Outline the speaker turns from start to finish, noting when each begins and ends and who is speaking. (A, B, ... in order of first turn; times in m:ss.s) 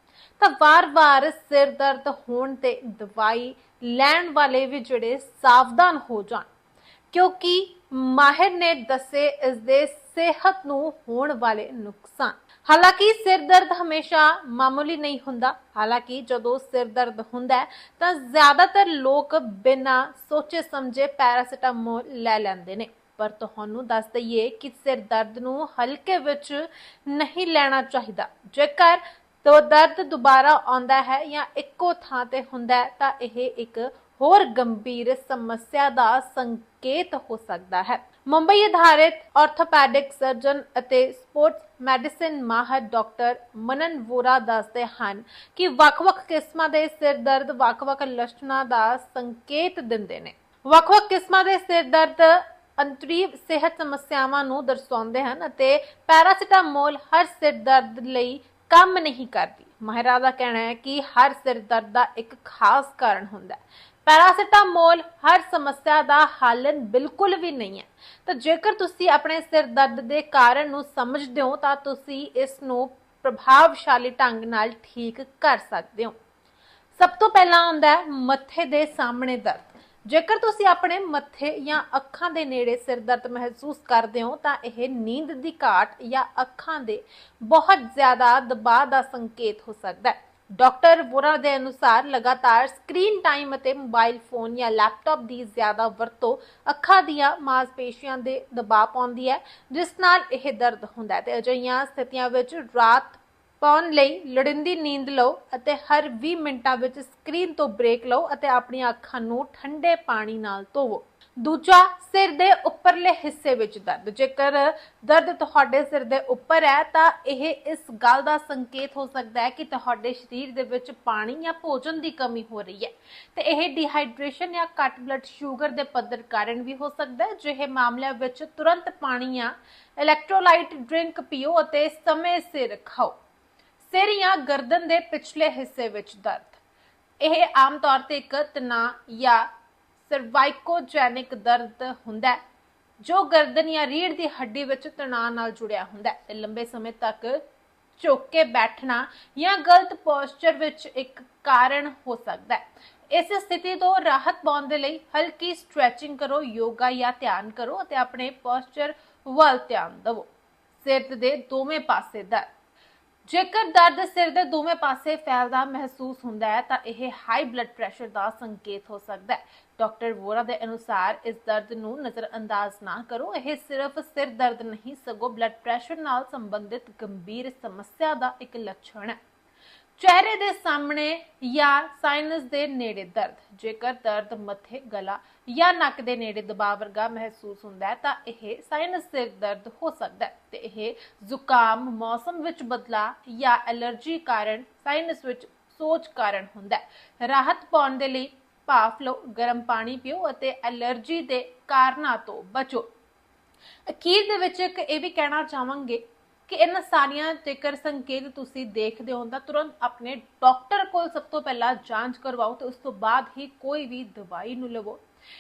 0:00.4-0:06.5 A
0:07.1-1:16.1 A
1:17.0-2:13.1 A
2:13.8-2:16.6 A
2:17.2-2:19.4 A
2:20.0-2:22.4 A
2:23.0-2:27.4 A
2:28.0-2:40.3 A
2:40.8-2:42.5 A
2:43.2-2:59.2 A
3:00.0-3:22.9 A
3:23.9-3:35.0 A